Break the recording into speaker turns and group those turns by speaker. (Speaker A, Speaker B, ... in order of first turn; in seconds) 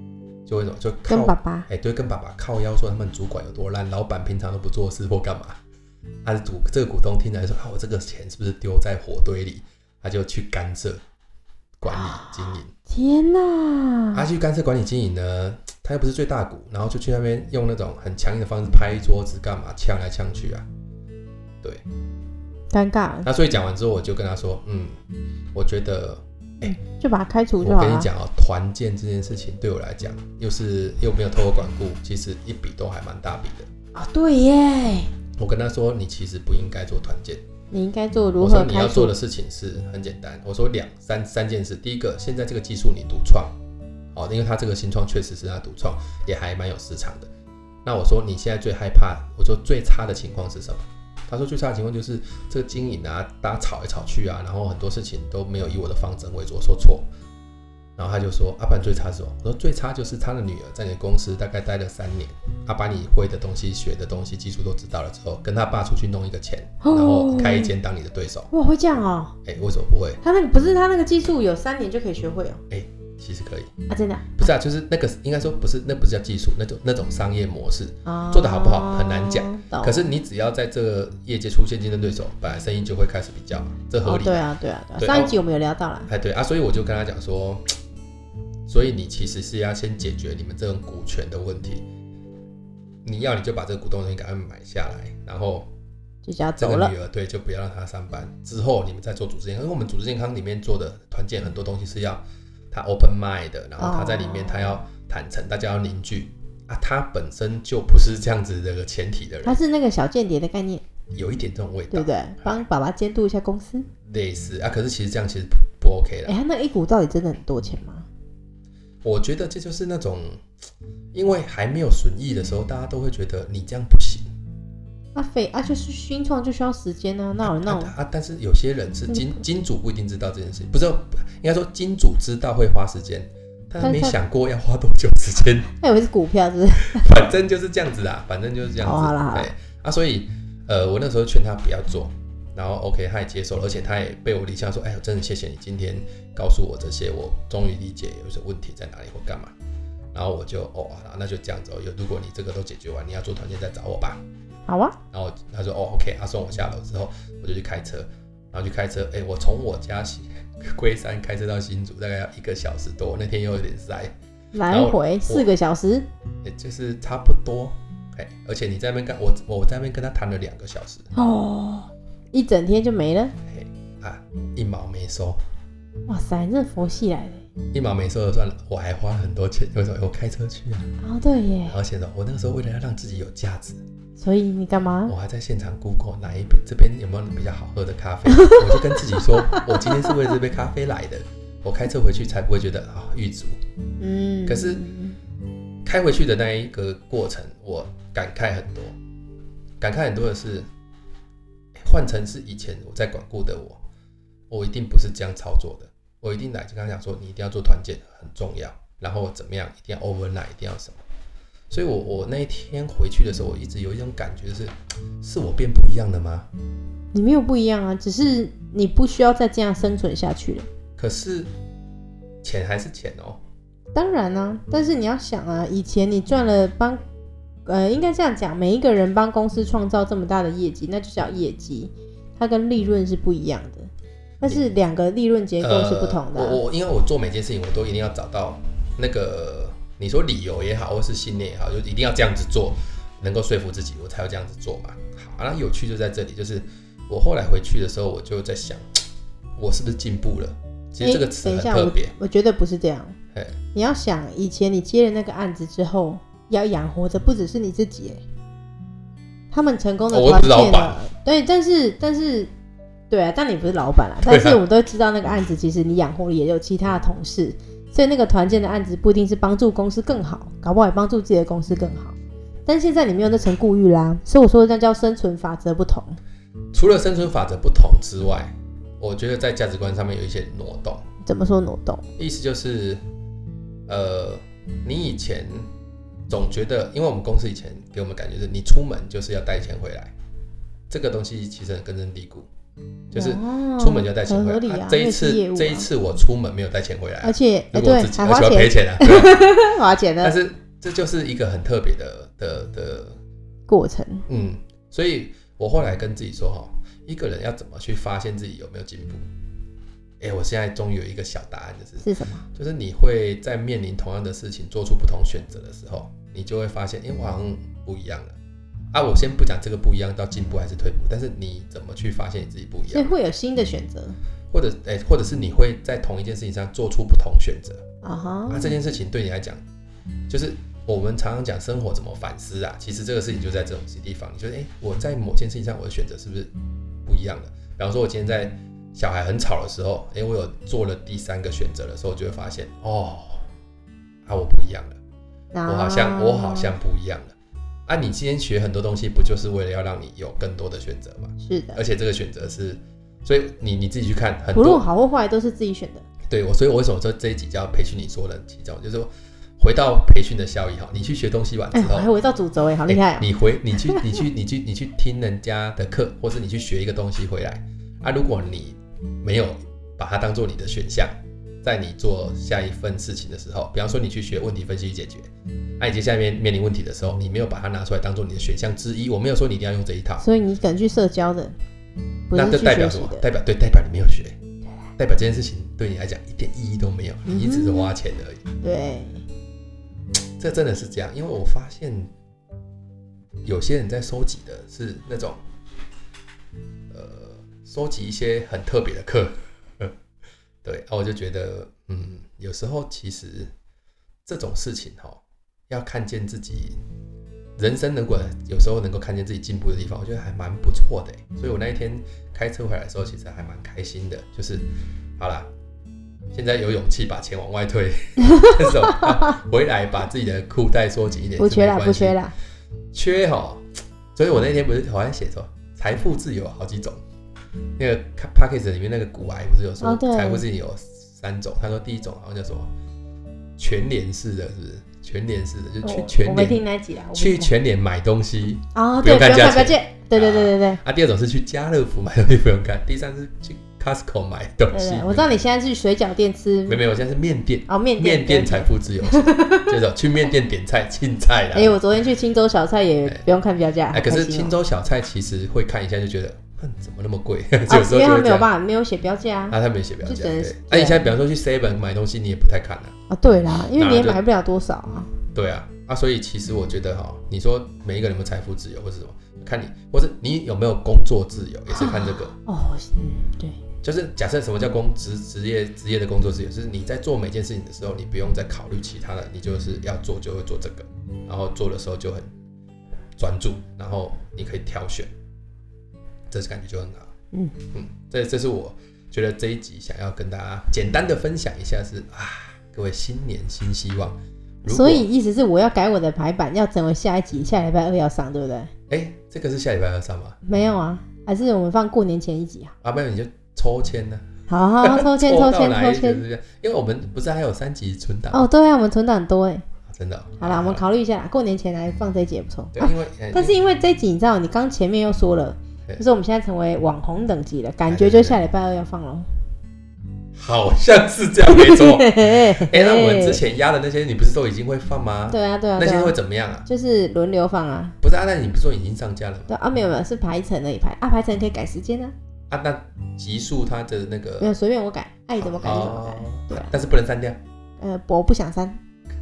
Speaker A: 0.5-5.6, 6.2-11.0, 11.8-12.7, 14.1-20.7, 23.2-24.9, 25.5-26.8, 27.6-33.7, 35.4-37.4, 38.4-43.5, 44.1-47.3, 47.9-57.1, 58.0-68.5, 69.5-70.2, 72.7-73.7, 74.4-85.3, 86.1-87.7, 88.7-91.9, 93.0-95.7, 96.6-109.6, 111.1-112.6, 114.0-116.3, 119.0-120.4, 121.1-124.3, 127.4-135.7, 136.8-149.5, 150.1-154.2, 155.1-164.1, 164.7-165.5, 166.4-171.1, 173.5-175.4, 177.7-180.9, 181.7-183.8, 185.1-193.6, 194.5-194.8, 195.8-198.9, 199.8-200.7, 201.8-203.8, 204.5-211.0, 211.7-216.5, 221.0-221.5, 222.4-223.4, 235.6-249.0, 249.6-252.2, 253.3-253.6, 260.1-261.0, 264.2-264.6, 276.7-281.0, 282.2-283.0, 283.9-285.7, 286.3-290.1, 290.9-292.5, 293.1-299.7, 300.2-303.2, 304.3-309.3, 310.2-318.4, 318.9-323.1, 324.5-327.8, 328.5-329.6, 330.3-336.5, 337.1-343.4, 344.3-345.0, 345.7-347.4, 347.9-354.9, 356.3-362.1, 362.9-375.3, 375.8-380.3, 382.3-384.4, 385.0-388.4, 390.4-392.1, 393.4-395.4, 396.9-399.9, 400.6-403.5, 404.2-406.8, 407.6-414.7, 415.2-415.5, 416.3-422.2, 422.9-427.0, 427.8-432.7, 433.6-436.6, 437.1-445.4, 446.7-451.8, 453.9-458.5, 459.5-462.9, 463.7-464.2, 465.3-472.3, 473.8-482.3, 483.2-485.1, 486.3-487.1, 487.7-495.1, 498.9-500.4, 502.8-504.3, 504.8-508.4, 509.9-510.8, 512.7-513.6, 517.9-518.4, 520.4-526.7, 528.0-529.5, 532.5-534.5, 535.4-537.4
Speaker B: 1.1-1.7, 11.9-12.4, 12.9-14.2, 22.7-23.3, 26.6-28.1, 33.9-35.1, 37.7-39.1, 66.8-67.7, 68.5-69.3, 70.2-72.6, 73.9-74.5, 78.0-80.1, 84.0-86.1, 96.2-96.9, 103.8-104.8, 109.4-110.8, 111.9-113.9, 116.3-118.1, 125.2-127.9, 129.1-129.4, 133.8-134.2, 135.8-137.1, 138.8-139.5, 154.7-154.9, 164.5-166.1, 171.2-173.3, 176.1-177.4, 181.0-181.8, 184.2-185.1, 188.5-188.9, 194.0-195.2, 217.1-220.7, 223.9-227.0, 227.7-233.9, 234.4-236.6, 251.0-253.2, 253.7-258.2, 259.5-262.5, 263.1-276.2, 281.3-282.1, 293.1-295.9, 297.2-300.4, 303.7-304.2, 312.0-312.4, 322.9-324.2, 328.0-328.8, 345.5-346.7, 351.4-351.8, 354.6-356.1, 361.7-364.1, 380.2-381.6, 382.3-383.3, 387.3-387.9, 388.6-389.2, 418.4-419.2, 421.4-422.3, 429.8-430.4, 435.8-437.5, 438.8-440.8, 444.7-446.8, 447.7-449.8, 451.5-454.6, 457.7-461.1, 463.1-465.1, 471.7-473.6, 494.6-498.7, 500.4-502.8, 504.5-506.2, 508.3-509.6, 510.4-519.3, 521.5-523.4, 525.3-528.0, 529.5-532.1, 534.4-536.8, 537.8-538.8